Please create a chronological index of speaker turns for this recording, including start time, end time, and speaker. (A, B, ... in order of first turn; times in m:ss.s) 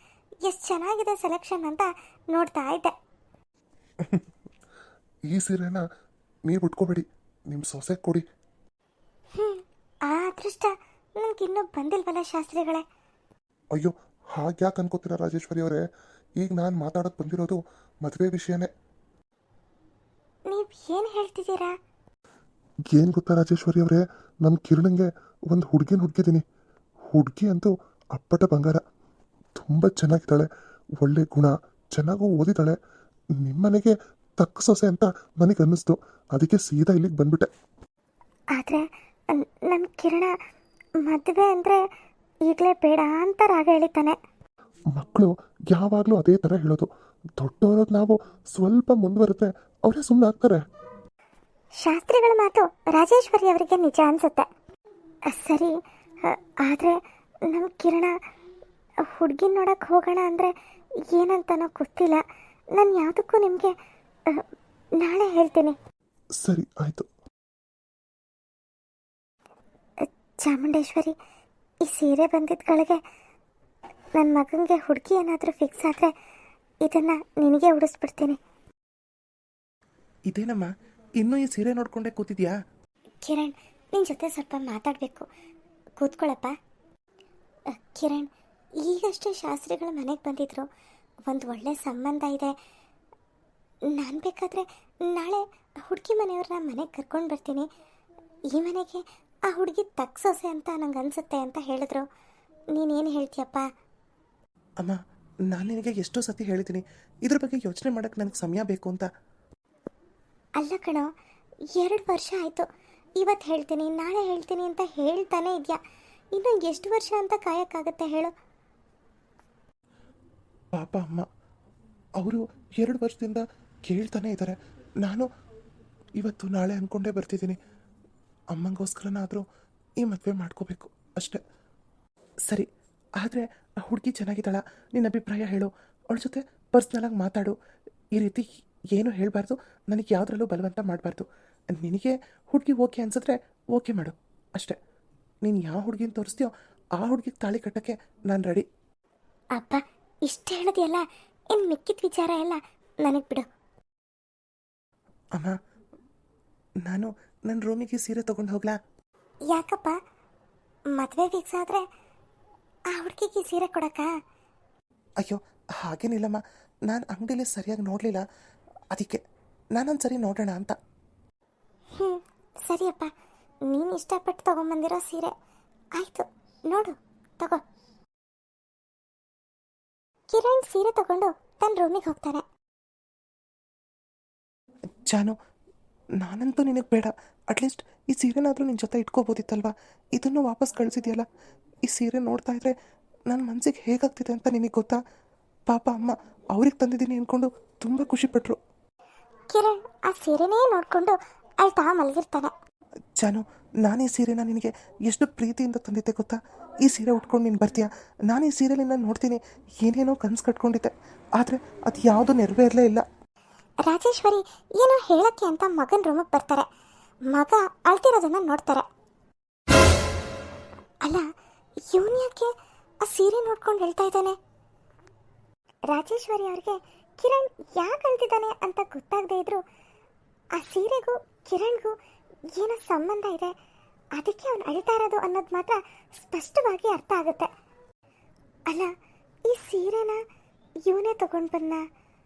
0:00.4-0:02.9 A
0:05.3-0:05.8 B
0:06.5-0:08.2 B
0:09.3-0:12.8 A
0:13.7-0:15.8 B
0:16.4-0:18.7 B
0:20.5-0:21.7 A
0:22.9-0:26.4 B
0:27.1-0:28.8 B
0:29.6-0:32.8 B
0:33.4-0:37.5 B
0:38.6-0:40.3 A
0:41.0-0:41.8 A
0:42.4-0:44.2 A
0:44.9-0:50.6 B
0:51.8-0:54.5 A
0:55.3-0:57.0 A
0:57.5-0:58.2 A
0:59.1-1:00.5 A
1:01.1-1:02.2 A
1:02.8-1:03.7 A
1:05.0-1:05.8 A
1:06.4-1:07.1 B
1:10.0-1:11.1 A
1:11.8-1:13.0 A
1:14.1-1:16.1 A
1:16.8-1:18.4 A
1:20.3-1:22.5 B
1:23.2-1:25.3 A
1:26.0-1:26.5 A
1:27.7-1:28.3 A
1:28.8-1:30.6 A
1:31.3-1:32.6 A
1:33.9-1:37.7 A
1:38.5-1:42.0 A
1:42.7-1:43.6 A
1:45.5-1:49.1 B
1:50.6-1:51.1 A
1:51.8-1:52.6 A
1:53.2-1:55.8 A
1:56.3-1:58.3 A
2:00.8-2:01.3 B
2:02.2-2:05.3 B
2:06.2-2:07.6 B
2:08.5-2:09.4 B
2:10.0-2:11.4 B
2:13.2-2:17.5 B
2:18.1-2:21.2 B
2:21.8-2:24.8 B
2:25.4-2:28.6 B
2:29.6-2:33.4 A
2:36.8-2:38.8 B
2:39.5-2:40.0 A
2:40.9-2:41.8 A
2:42.9-2:44.1 A
2:45.2-2:48.2 B
2:48.9-2:49.2 B
2:49.7-2:50.8 B
2:52.0-2:53.1 A
2:53.7-2:55.3 A
2:56.0-2:57.6 A
3:00.3-3:02.4 A
3:05.1-3:05.3 B
3:06.2-3:11.2 B
3:11.8-3:12.7 B
3:13.3-3:15.0 B
3:15.7-3:18.6 B
3:19.5-3:22.5 A
3:23.2-3:33.0 B
3:33.8-3:36.7 A
3:37.3-3:38.9 A
3:41.9-3:42.5 A
3:43.0-3:44.4 A
3:45.9-3:49.6 A
3:50.6-3:52.0 A
3:52.6-3:53.5 A
3:54.2-3:57.5 A
3:59.5-4:00.2 A
4:00.8-4:01.8 A